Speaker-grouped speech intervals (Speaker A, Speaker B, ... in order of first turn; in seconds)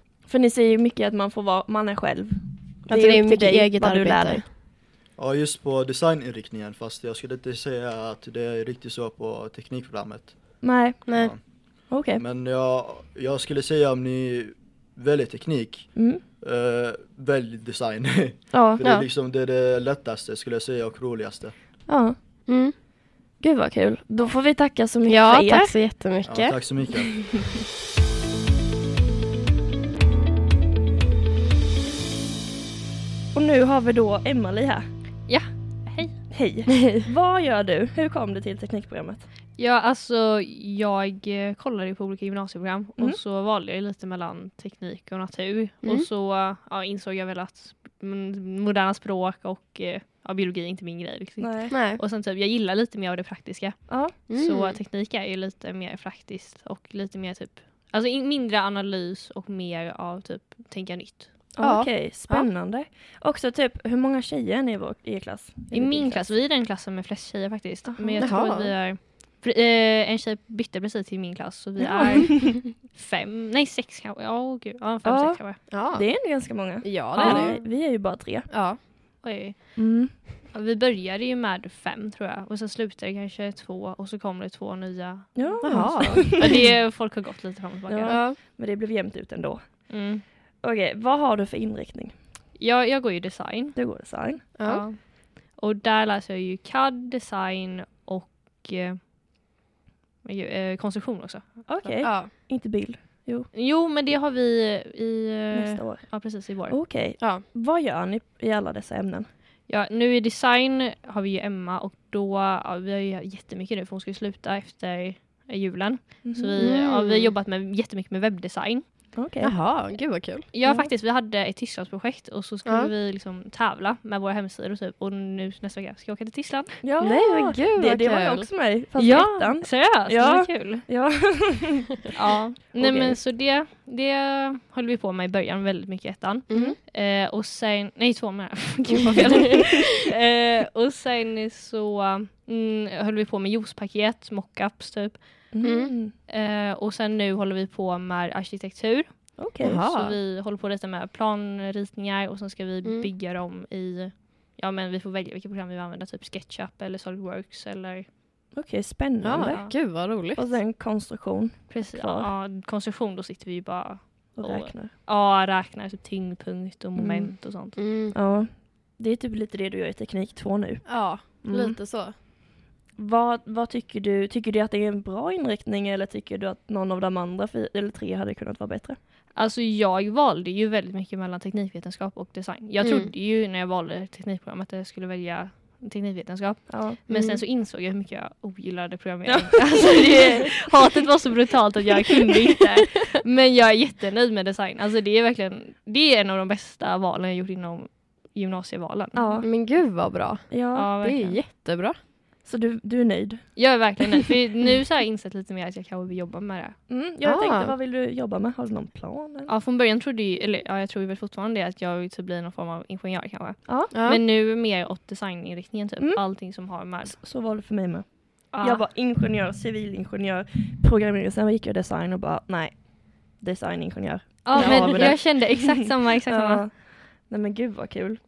Speaker A: 0.3-4.5, 10.6-11.2, 11.9-12.2, 15.9-16.3, 18.5-18.8, 21.9-22.1, 23.4-25.8, 27.0-27.6, 33.3-34.9, 36.3-39.3, 51.4-51.8, 53.9-54.2, 61.6-66.3, 67.9-68.3, 75.0-78.5, 79.8-80.2, 85.4-86.7, 87.9-89.9, 90.6-92.2, 93.8-94.5, 101.7-103.5, 105.5-109.3, 116.2-116.7, 119.1-119.5, 126.8-132.1, 145.5-146.1, 149.4-149.9, 158.5-159.7, 160.3-162.3, 164.3-164.9, 167.0-167.3, 168.1-171.8, 173.0-179.0, 186.7-187.0, 189.2-191.1, 199.1-199.5, 200.5-200.9, 202.4-203.6, 206.9-209.5, 213.7-213.9, 217.0-228.2
Speaker B: 2.9-4.4, 11.1-11.3, 22.5-22.7, 25.1-26.6, 45.8-46.1, 51.7-52.0, 54.3-54.8, 61.6-62.5, 68.2-68.7, 75.7-77.6, 78.5-78.8, 85.6-86.5, 88.1-88.4, 94.6-94.8, 102.0-102.3, 116.6-117.3, 119.4-120.9, 122.7-122.9, 127.0-129.4, 132.8-133.1, 136.5-136.8, 145.6-145.9, 149.6-150.2, 152.8-153.1, 159.2-160.5, 167.8-168.2, 170.8-172.2, 182.8-183.1, 187.1-187.4, 199.4-200.5, 201.0-202.0, 207.2-207.8, 213.9-214.2, 224.6-225.1
Speaker C: 5.2-21.5, 26.2-27.2
Speaker D: 35.3-36.2, 39.6-61.4, 65.7-75.7, 77.2-77.5, 79.2-88.3, 89.9-90.2, 92.6-93.8, 94.6-99.0, 100.2-102.1, 103.5-106.8, 109.7-119.1, 120.5-126.8, 129.1-130.9, 132.1-145.5, 146.3-158.1, 159.4-160.1, 161.7-167.8, 179.3-199.4, 200.7-201.4, 203.6-206.8, 209.5-217.2, 218.5-218.8, 224.4-226.8